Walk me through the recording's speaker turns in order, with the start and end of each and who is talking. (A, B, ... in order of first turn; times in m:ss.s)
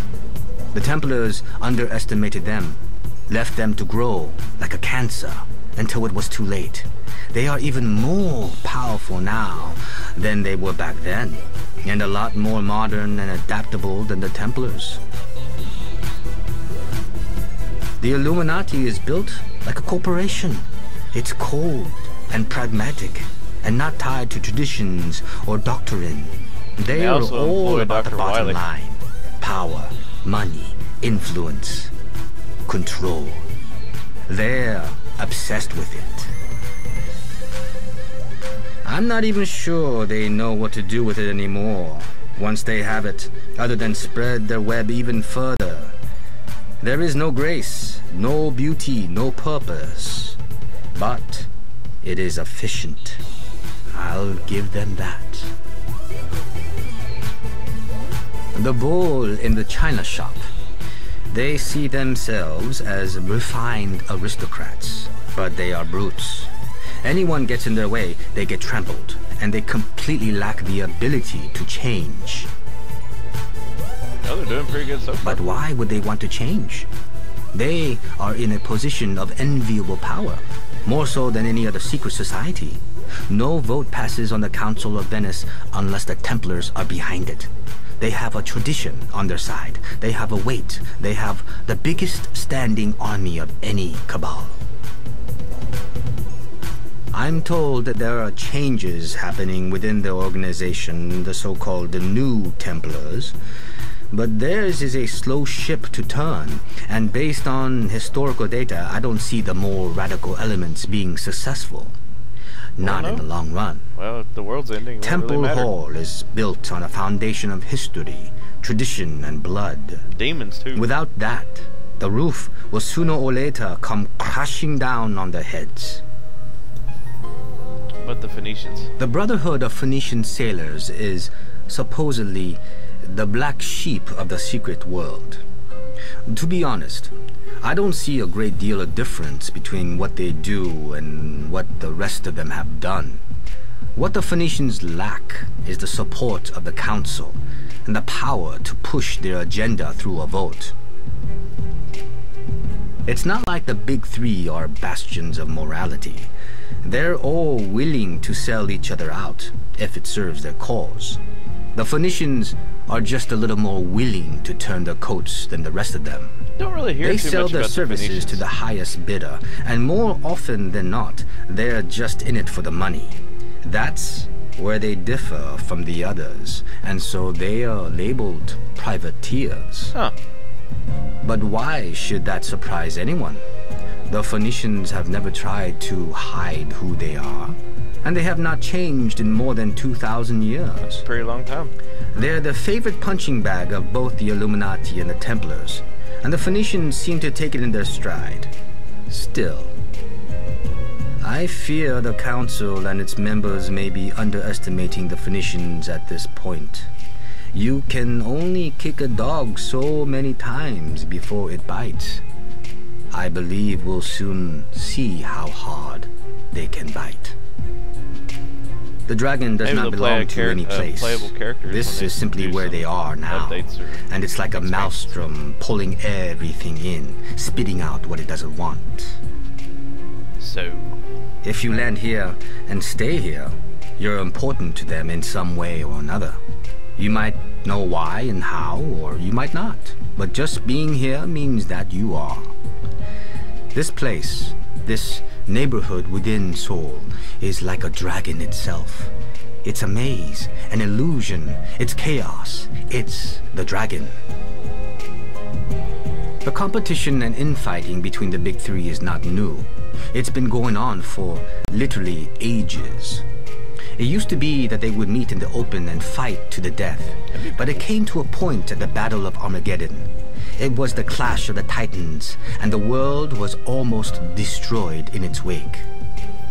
0:00.7-0:15.0 A
0:18.0-0:31.9 A
0:26.9-0:28.6 B
0:32.7-0:33.5 A
0:34.3-0:36.3 A
0:38.8-0:46.0 A
0:46.8-0:50.4 A
0:50.9-0:51.5 A
0:52.0-0:53.2 A
0:53.9-0:55.5 A
0:58.5-1:00.5 A
1:01.3-1:12.5 A
1:14.2-1:15.6 B
1:15.2-1:16.9 A
1:17.5-1:34.6 A
1:37.1-1:43.4 A
1:44.1-1:52.0 A
1:52.8-1:53.9 A
1:52.8-1:53.3 B
1:54.0-1:55.7 B
1:55.0-2:00.0 A
2:00.1-2:00.9 B
2:00.7-2:06.0 A
2:08.0-2:08.9 B
2:09.0-2:15.4 A
2:16.3-2:23.2 A
2:24.0-2:30.8 A
2:33.1-2:36.3 A
2:36.8-2:41.2 A
2:41.8-2:46.4 A
2:46.6-2:48.4 B
2:47.0-3:00.0 A
3:01.2-3:03.5 A
3:04.1-3:11.1 A
3:10.8-3:11.7 B
3:12.1-3:18.5 A
3:19.1-3:19.7 A
3:21.2-3:26.9 A
3:27.5-3:32.2 A
3:33.1-3:37.4 A
3:39.1-3:49.2 A
3:39.6-3:45.2 B
3:50.4-3:51.0 B
3:51.4-3:56.4 A
3:57.0-4:02.5 A
4:03.7-4:09.1 A
4:09.6-4:14.2 A
4:16.4-4:23.2 A
4:24.0-4:35.9 A
4:27.3-4:27.8 B